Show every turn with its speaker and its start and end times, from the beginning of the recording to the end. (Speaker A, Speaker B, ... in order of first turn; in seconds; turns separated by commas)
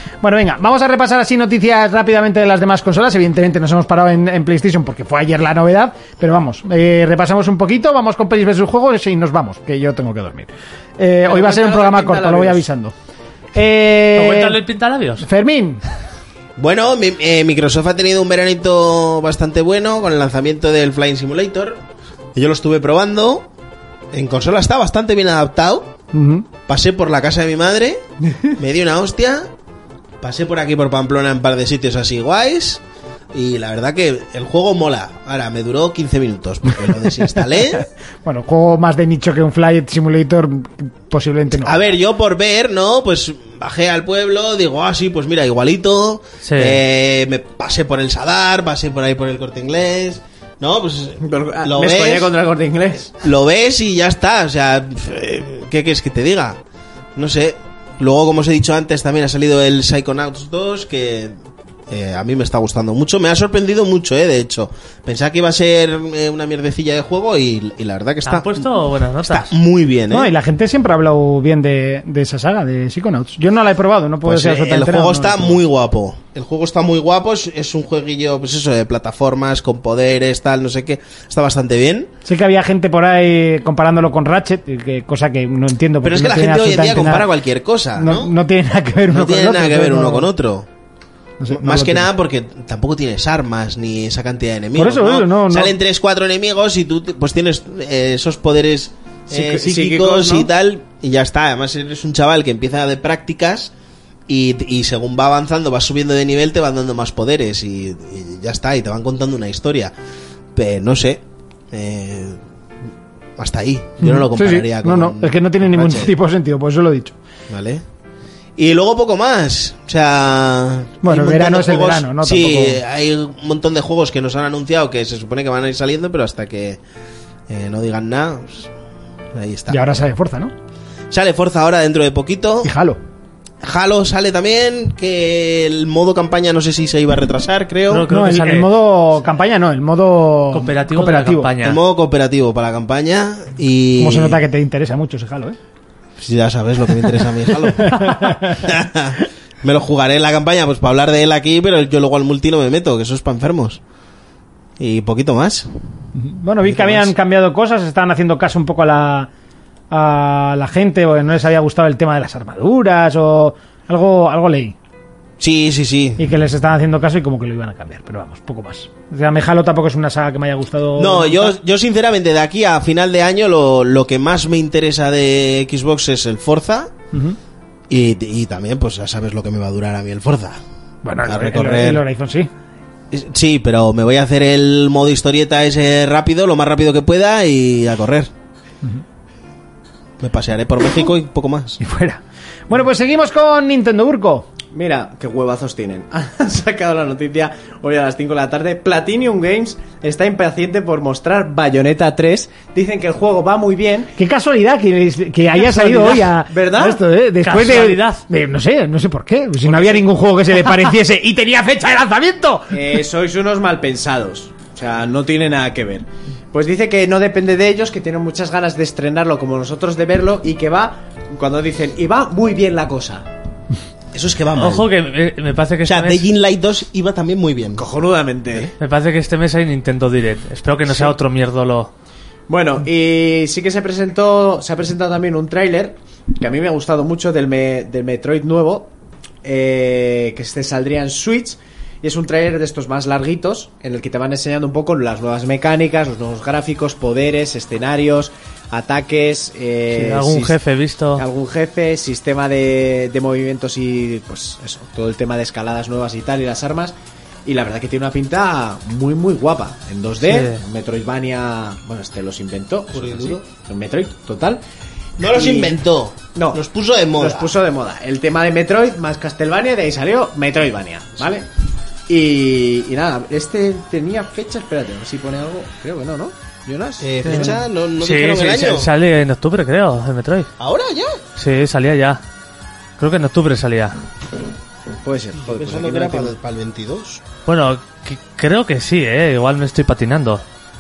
Speaker A: 0.2-12.9, Speaker B: 11.3-12.6, Speaker A: 13.6-14.6, Speaker C: 14.2-15.3, Speaker A: 15.2-15.8, Speaker D: 16.6-21.8, Speaker D: 22.4-23.5, Speaker D: 24.1-25.9, Speaker A: 26.1-26.5, Speaker D: 26.7-28.0, Speaker D: 28.6-29.5, Speaker D: 30.2-32.8, Speaker D: 33.3-37.9, Speaker A: 38.2-41.9, Speaker D: 41.6-52.3, Speaker C: 46.4-46.8, Speaker B: 51.2-53.1, Speaker D: 53.2-56.6, Speaker D: 57.2-61.4, Speaker D: 61.9-68.7, Speaker C: 68.3-69.5, Speaker D: 69.2-70.3, Speaker A: 70.1-75.6, Speaker D: 74.2-82.1, Speaker A: 82.2-87.3, Speaker D: 86.0-88.3, Speaker A: 88.0-90.3, Speaker D: 89.1-90.7, Speaker A: 91.4-92.1, Speaker D: 91.5-103.7, Speaker A: 94.8-95.8, Speaker B: 99.3-100.5, Speaker D: 104.3-109.9, Speaker D: 110.5-112.4, Speaker D: 113.4-116.1, Speaker A: 114.0-117.2, Speaker D: 117.5-117.8, Speaker D: 118.6-126.8, Speaker A: 121.0-122.8, Speaker D: 127.5-128.7, Speaker D: 129.3-129.8, Speaker A: 129.7-130.5, Speaker D: 131.1-132.7, Speaker A: 132.6-133.0, Speaker D: 133.6-138.1, Speaker C: 137.9-138.7, Speaker A: 138.1-141.5, Speaker C: 140.5-141.8, Speaker D: 141.6-144.4, Speaker A: 144.0-145.6, Speaker D: 146.2-153.8, Speaker A: 147.8-148.6, Speaker D: 154.8-155.7, Speaker A: 156.2-159.3, Speaker D: 156.7-157.1, Speaker A: 159.9-164.8, Speaker D: 165.4-166.2, Speaker A: 166.2-171.6, Speaker D: 171.0-176.9, Speaker A: 177.1-177.4, Speaker D: 177.9-180.6, Speaker A: 181.0-182.5, Speaker D: 181.2-182.0, Speaker D: 183.1-188.3, Speaker D: 190.2-191.8, Speaker A: 191.8-194.5, Speaker B: 194.7-204.1, Speaker A: 204.2-213.0, Speaker B: 205.6-207.0, Speaker C: 207.4-208.2, Speaker B: 209.6-210.1, Speaker B: 212.7-223.3, Speaker D: 224.1-224.9, Speaker C: 224.6-226.2, Speaker D: 225.8-227.9, Speaker B: 227.8-228.7, Speaker C: 228.8-231.9, Speaker B: 232.5-238.9, Speaker B: 239.4-250.6, Speaker C: 249.9-251.2, Speaker B: 251.2-256.9, Speaker B: 257.5-264.6, Speaker C: 260.2-260.6, Speaker D: 262.9-263.5, Speaker D: 265.2-267.5, Speaker B: 265.2-265.8, Speaker B: 266.4-266.6, Speaker B: 267.2-271.5, Speaker B: 272.1-277.6, Speaker D: 277.0-278.9, Speaker C: 277.2-280.5, Speaker D: 280.6-281.2, Speaker C: 281.4-282.2, Speaker C: 283.0-284.0, Speaker B: 285.0-286.4, Speaker D: 285.4-287.2, Speaker C: 287.5-290.4